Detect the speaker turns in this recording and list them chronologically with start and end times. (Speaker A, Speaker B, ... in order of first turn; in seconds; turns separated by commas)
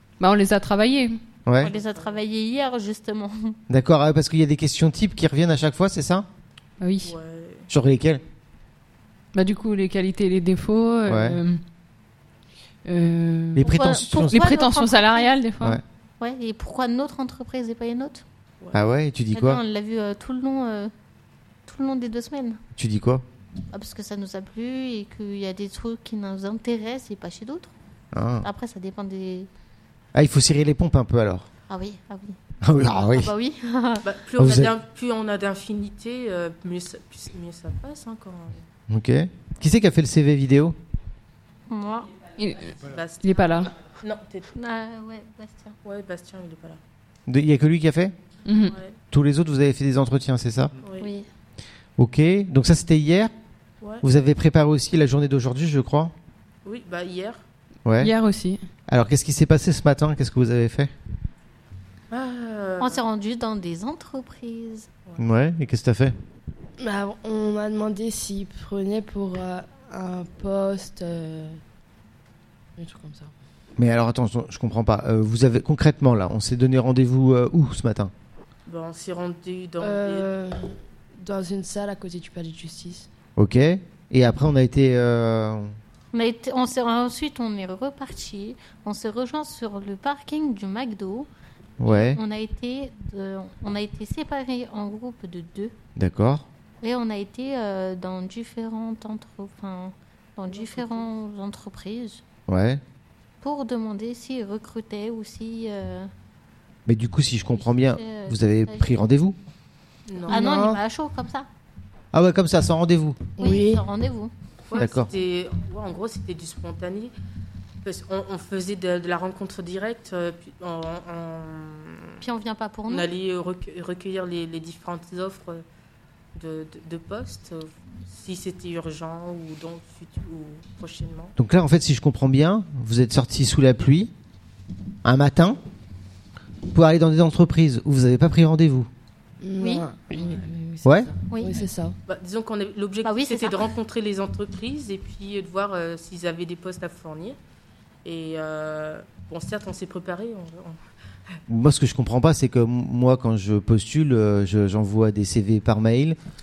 Speaker A: 0.2-1.2, Speaker B: 1.4-1.7, Speaker C: 1.6-3.6, Speaker D: 1.6-2.2, Speaker B: 3.7-6.2, Speaker A: 6.8-7.1, Speaker D: 7.0-7.7, Speaker B: 7.7-8.2, Speaker A: 9.3-11.6, Speaker B: 11.1-11.4, Speaker A: 12.8-15.8, Speaker B: 13.6-14.4, Speaker C: 13.7-15.4, Speaker C: 16.2-18.2, Speaker B: 18.7-19.6, Speaker C: 19.3-20.9, Speaker C: 21.6-22.6, Speaker B: 22.8-23.2, Speaker C: 23.7-27.7, Speaker B: 28.1-28.5, Speaker C: 28.4-29.5, Speaker B: 30.1-31.5, Speaker C: 31.7-32.4, Speaker B: 32.6-33.3, Speaker C: 33.1-34.0, Speaker D: 34.0-38.6, Speaker B: 34.4-34.7, Speaker B: 38.9-40.8, Speaker C: 41.7-42.1, Speaker A: 42.4-43.7, Speaker D: 42.8-44.5, Speaker C: 44.5-45.7, Speaker D: 45.8-46.8, Speaker B: 47.3-48.1, Speaker A: 48.5-48.8, Speaker D: 48.7-49.0, Speaker B: 49.1-50.7, Speaker D: 50.8-51.1, Speaker C: 51.0-51.2, Speaker B: 52.0-53.3, Speaker B: 54.0-56.1, Speaker D: 56.6-57.4, Speaker B: 57.8-58.1, Speaker A: 58.0-58.6, Speaker B: 58.9-60.9, Speaker D: 62.1-63.0, Speaker C: 62.8-64.9, Speaker B: 65.2-66.1, Speaker E: 66.8-71.6, Speaker E: 72.8-73.3, Speaker B: 73.8-78.1, Speaker D: 78.7-80.3, Speaker E: 79.8-83.1, Speaker B: 83.4-85.7, Speaker C: 86.1-91.3, Speaker B: 91.8-92.2, Speaker C: 91.8-95.7, Speaker B: 96.0-96.5, Speaker C: 96.8-102.2, Speaker D: 100.5-101.1, Speaker B: 102.5-102.8, Speaker C: 103.4-106.1, Speaker B: 106.9-109.3, Speaker C: 107.6-108.9, Speaker D: 110.1-110.7, Speaker E: 110.3-110.8, Speaker C: 110.3-111.5, Speaker B: 110.4-110.8, Speaker B: 112.1-113.3, Speaker E: 113.4-113.8, Speaker C: 113.4-115.1, Speaker D: 114.7-117.1, Speaker B: 114.8-115.1, Speaker D: 117.8-122.2, Speaker C: 122.2-123.1, Speaker D: 122.9-125.6, Speaker D: 126.3-131.3, Speaker B: 131.4-134.1, Speaker B: 135.0-135.6, Speaker B: 136.7-138.9, Speaker E: 139.4-141.9, Speaker C: 139.6-139.8, Speaker B: 140.8-141.1, Speaker C: 141.3-141.6, Speaker D: 142.1-147.4, Speaker C: 143.0-143.6, Speaker D: 148.0-150.8, Speaker B: 151.5-156.2